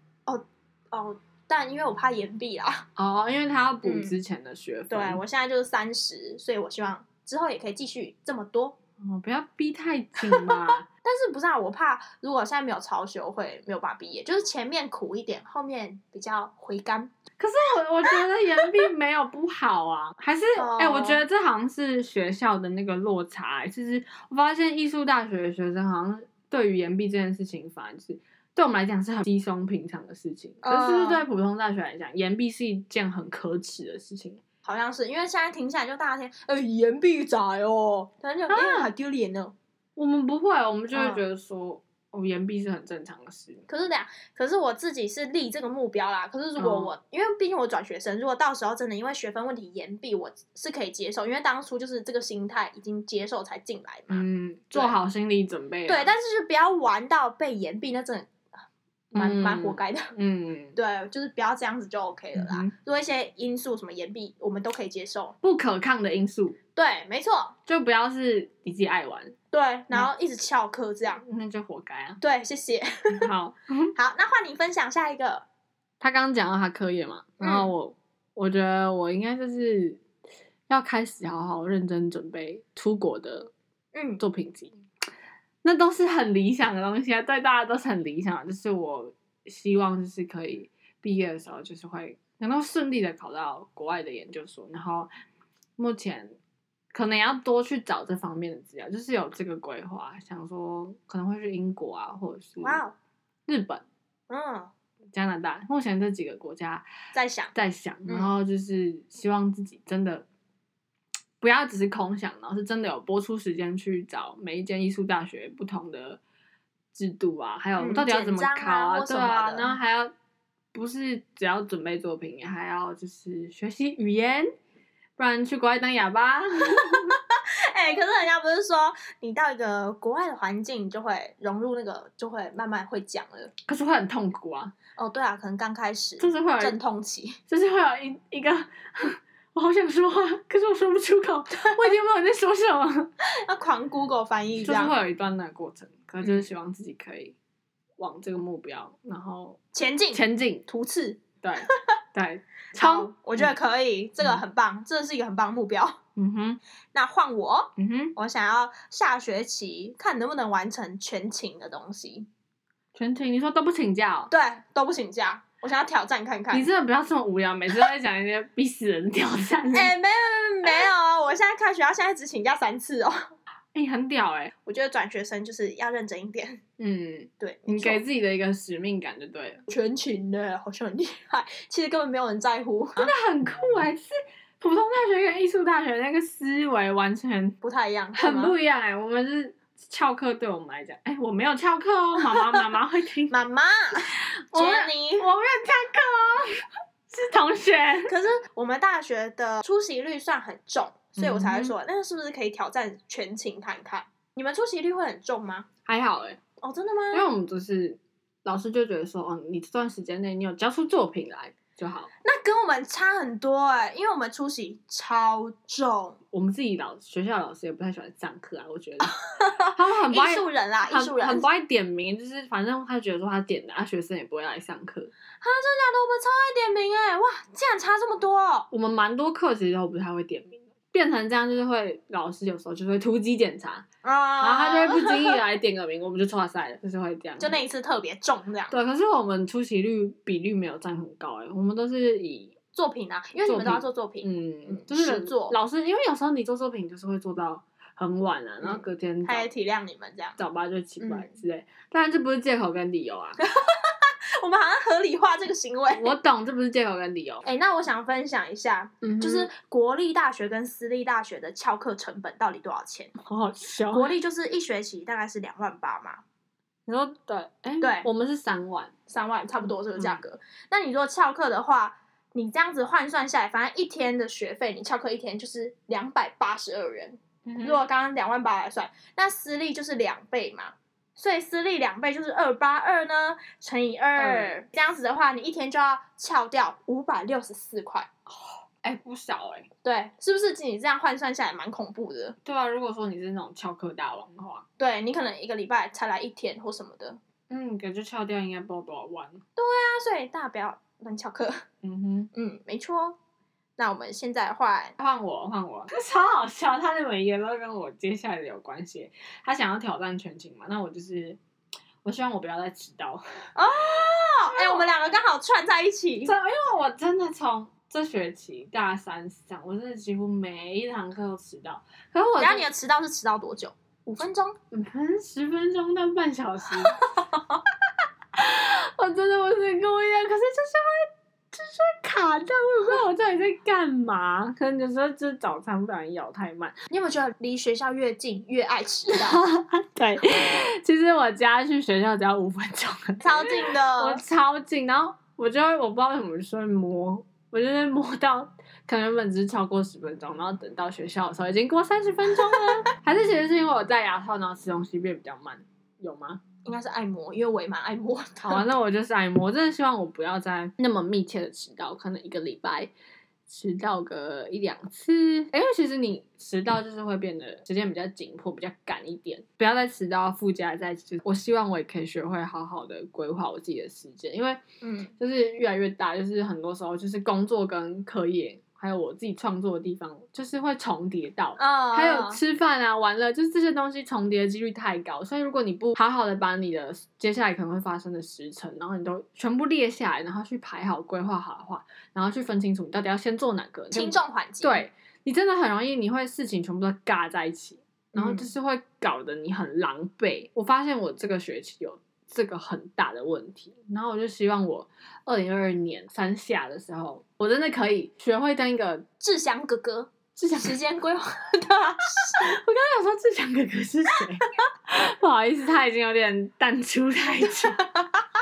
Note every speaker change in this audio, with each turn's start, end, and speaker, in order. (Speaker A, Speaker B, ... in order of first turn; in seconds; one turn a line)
Speaker A: 0.3-2.9
Speaker B: 3.0-5.2
Speaker A: 3.8-4.2
Speaker A: 4.9-8.8
Speaker B: 9.0-10.9
Speaker A: 10.2-17.1
Speaker B: 17.4-34.4
Speaker A: 20.6-21.2
Speaker A: 30.6-31.3
Speaker A: 34.6-39.5
Speaker B: 38.5-38.9
Speaker B: 40.0-43.7
Speaker A: 40.9-41.2
Speaker A: 43.7-55.0
Speaker B: 46.5-47.0
Speaker B: 54.1-56.1
Speaker A: 55.9-58.3
Speaker B: 59.1-60.8
Speaker A: 59.1-60.1
Speaker A: 60.8-65.3
Speaker B: 62.3-62.8
Speaker B: 65.4-66.6
Speaker A: 66.7-67.5
Speaker B: 67.7-69.4
Speaker A: 69.5-71.2
Speaker B: 71.1-72.2
Speaker A: 72.2-73.3
Speaker B: 73.1-73.9
Speaker A: 74.0-75.5
Speaker B: 76.0-80.0
Speaker A: 77.4-77.7
Speaker B: 80.7-83.5
Speaker A: 83.9-84.2
Speaker B: 84.2-84.7
Speaker B: 85.6-95.1
Speaker B: 95.8-96.4
Speaker B: 96.9-102.8
Speaker A: 102.6-103.0
Speaker B: 103.5-103.8
Speaker A: 104.3-104.7
Speaker B: 105.1-106.9
Speaker A: 107.1-107.5
Speaker B: 107.5-110.3
Speaker A: 108.1-108.3
Speaker B: 111.4-116.2
Speaker B: 116.9-120.1
Speaker A: 117.8-119.8
Speaker B: 120.7-124.5
Speaker B: 125.2-127.2
Speaker A: 126.8-133.5
Speaker B: 133.6-134.8
Speaker A: 135.0-137.4
Speaker B: 136.2-136.8
Speaker B: 137.5-143.1
Speaker A: 141.6-141.9
Speaker A: 143.4-145.0
Speaker B: 144.6-147.4
Speaker A: 146.2-146.5
Speaker B: 148.0-150.7
Speaker A: 149.7-151.8
Speaker B: 151.4-153.6
Speaker A: 152.8-156.0
Speaker B: 156.2-156.6
Speaker A: 156.9-162.3
Speaker B: 157.8-158.2
Speaker B: 162.9-164.3
Speaker A: 164.3-166.7
Speaker B: 166.5-169.9
Speaker A: 169.7-173.3
Speaker B: 173.7-174.6
Speaker A: 174.7-176.6
Speaker B: 176.8-179.6
Speaker A: 177.4-178.0
Speaker A: 179.7-183.1
Speaker B: 183.0-187.6
Speaker A: 187.6-188.6
Speaker B: 188.1-193.4
Speaker A: 192.3-192.6
Speaker A: 193.3-195.3
Speaker B: 194.1-198.2
Speaker A: 198.1-205.7
Speaker B: 201.2-201.8
Speaker B: 205.8-206.4
Speaker A: 206.6-207.3
Speaker B: 207.1-212.1
Speaker A: 212.2-216.2
Speaker B: 216.3-225.1
Speaker A: 219.1-221.5
Speaker A: 225.4-228.7
Speaker B: 228.7-233.9
Speaker A: 234.0-235.4
Speaker B: 234.4-237.6
Speaker A: 237.4-238.8
Speaker B: 238.7-242.7
Speaker A: 242.7-245.6
Speaker B: 243.4-249.5
Speaker A: 248.6-250.3
Speaker B: 250.3-253.4
Speaker A: 251.0-251.3
Speaker A: 253.4-256.2
Speaker B: 255.9-257.5
Speaker A: 257.4-263.1
Speaker B: 259.0-259.5
Speaker B: 263.2-264.2
Speaker A: 263.9-266.2
Speaker B: 266.9-268.9
Speaker A: 267.8-268.1
Speaker A: 269.1-288.1
Speaker B: 269.7-270.2
Speaker B: 277.5-277.8
Speaker B: 284.1-284.6
Speaker B: 288.3-289.7
Speaker A: 289.8-292.4
Speaker B: 292.4-294.7
Speaker A: 294.8-297.2
Speaker B: 297.5-299.4
Speaker A: 299.6-301.6
Speaker B: 301.8-302.3
Speaker A: 302.3-303.2
Speaker A: 303.8-304.9
Speaker B: 305.0-311.4
Speaker B: 312.0-313.5
Speaker A: 313.6-316.4
Speaker B: 314.4-314.9
Speaker B: 316.2-322.7
Speaker A: 322.4-324.6
Speaker B: 324.1-327.0
Speaker A: 326.8-327.6
Speaker B: 328.4-336.8
Speaker A: 336.9-339.4
Speaker B: 339.1-356.4
Speaker A: 343.2-344.2
Speaker A: 356.6-358.6
Speaker B: 358.4-362.9
Speaker B: 363.5-374.6
Speaker A: 374.8-375.1
Speaker B: 375.2-409.1
Speaker A: 381.6-382.4
Speaker A: 393.9-394.8
Speaker A: 398.1-398.5
Speaker A: 409.2-412.6
Speaker B: 410.3-410.9
Speaker B: 412.4-417.8
Speaker A: 417.7-418.2